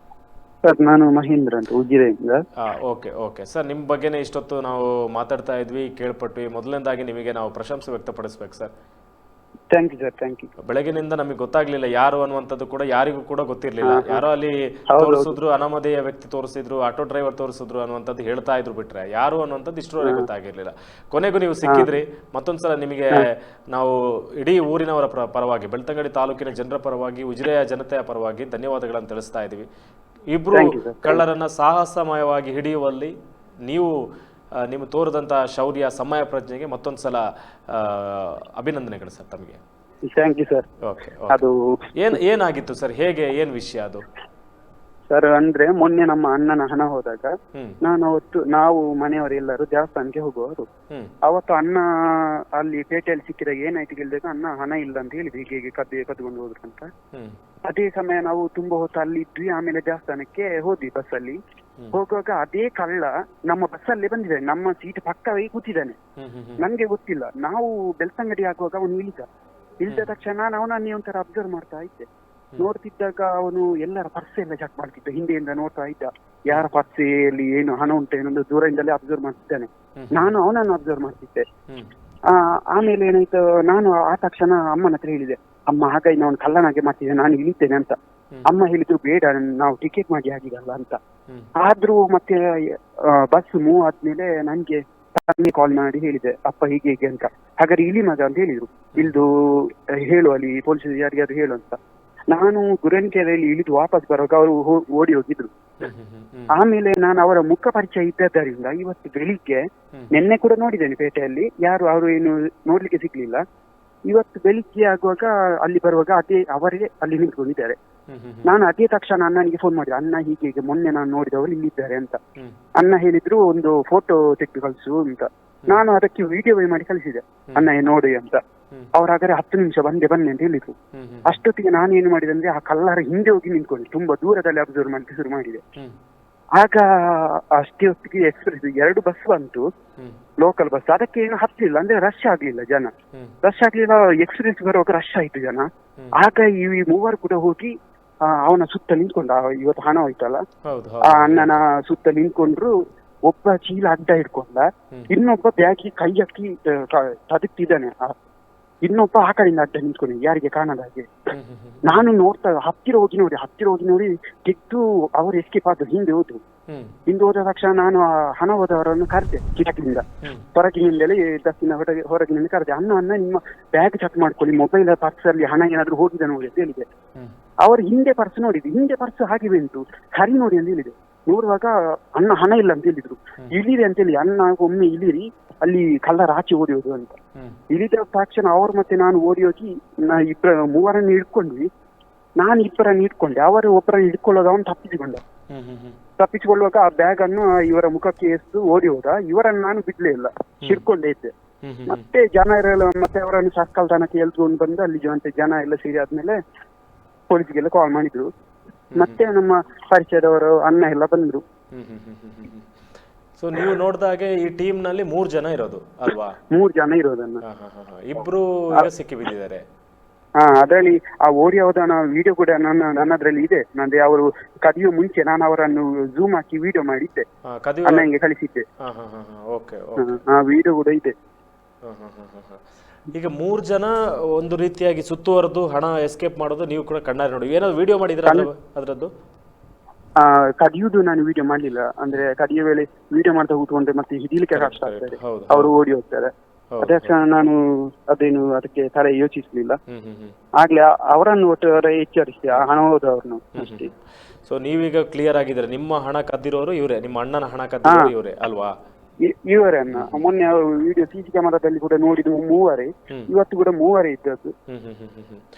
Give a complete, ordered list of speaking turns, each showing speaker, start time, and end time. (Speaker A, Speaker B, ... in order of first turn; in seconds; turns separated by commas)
Speaker A: 0.6-2.4, Speaker B: 2.6-8.7, Speaker A: 9.7-10.5, Speaker B: 10.6-29.7, Speaker A: 13.8-14.2, Speaker A: 14.9-15.3, Speaker A: 20.0-20.3, Speaker A: 21.6-21.9, Speaker B: 30.3-33.1, Speaker A: 30.5-31.2, Speaker B: 33.7-33.9, Speaker B: 34.6-39.6, Speaker A: 40.1-40.7, Speaker B: 40.8-41.4, Speaker A: 41.3-41.9, Speaker B: 42.0-44.0, Speaker A: 45.1-50.7, Speaker A: 51.2-56.9, Speaker A: 57.6-61.4, Speaker A: 61.9-66.0, Speaker B: 66.2-66.6, Speaker A: 66.6-69.2, Speaker A: 69.8-81.4, Speaker B: 80.0-80.3, Speaker A: 82.3-91.0, Speaker A: 91.5-101.8, Speaker A: 102.3-105.5, Speaker B: 105.8-106.5, Speaker A: 106.5-109.6, Speaker A: 110.1-113.4, Speaker A: 114.1-117.8, Speaker B: 118.1-118.5, Speaker A: 118.4-122.2, Speaker A: 122.8-128.4, Speaker A: 128.9-135.6, Speaker B: 130.9-131.3, Speaker A: 136.6-139.6, Speaker A: 140.4-142.9, Speaker A: 143.4-147.7, Speaker A: 148.2-150.4, Speaker B: 150.7-151.6, Speaker A: 151.0-152.7, Speaker A: 153.3-158.1, Speaker A: 158.8-161.1, Speaker B: 161.3-162.0, Speaker A: 161.8-166.4, Speaker B: 166.7-166.9, Speaker A: 167.1-170.0, Speaker A: 170.5-176.9, Speaker A: 177.6-187.1, Speaker A: 187.7-191.7, Speaker A: 192.4-195.2, Speaker B: 195.5-196.0, Speaker A: 196.2-201.3, Speaker B: 201.6-202.0, Speaker A: 201.9-206.4, Speaker A: 207.3-208.3, Speaker A: 208.9-211.4, Speaker B: 211.7-212.7, Speaker B: 213.4-216.4, Speaker A: 216.5-217.4, Speaker B: 217.4-219.6, Speaker A: 220.4-227.2, Speaker B: 227.5-228.1, Speaker A: 227.8-228.6, Speaker B: 228.8-230.2, Speaker A: 230.0-231.1, Speaker B: 231.8-232.6, Speaker B: 233.1-239.1, Speaker A: 240.2-246.3, Speaker B: 244.5-245.7, Speaker B: 246.7-247.1, Speaker A: 246.8-247.6, Speaker A: 248.1-249.8, Speaker B: 249.9-250.3, Speaker A: 250.6-253.9, Speaker B: 253.6-253.9, Speaker B: 254.4-258.7, Speaker A: 257.9-258.1, Speaker A: 259.2-264.5, Speaker B: 259.9-260.2, Speaker B: 264.7-265.4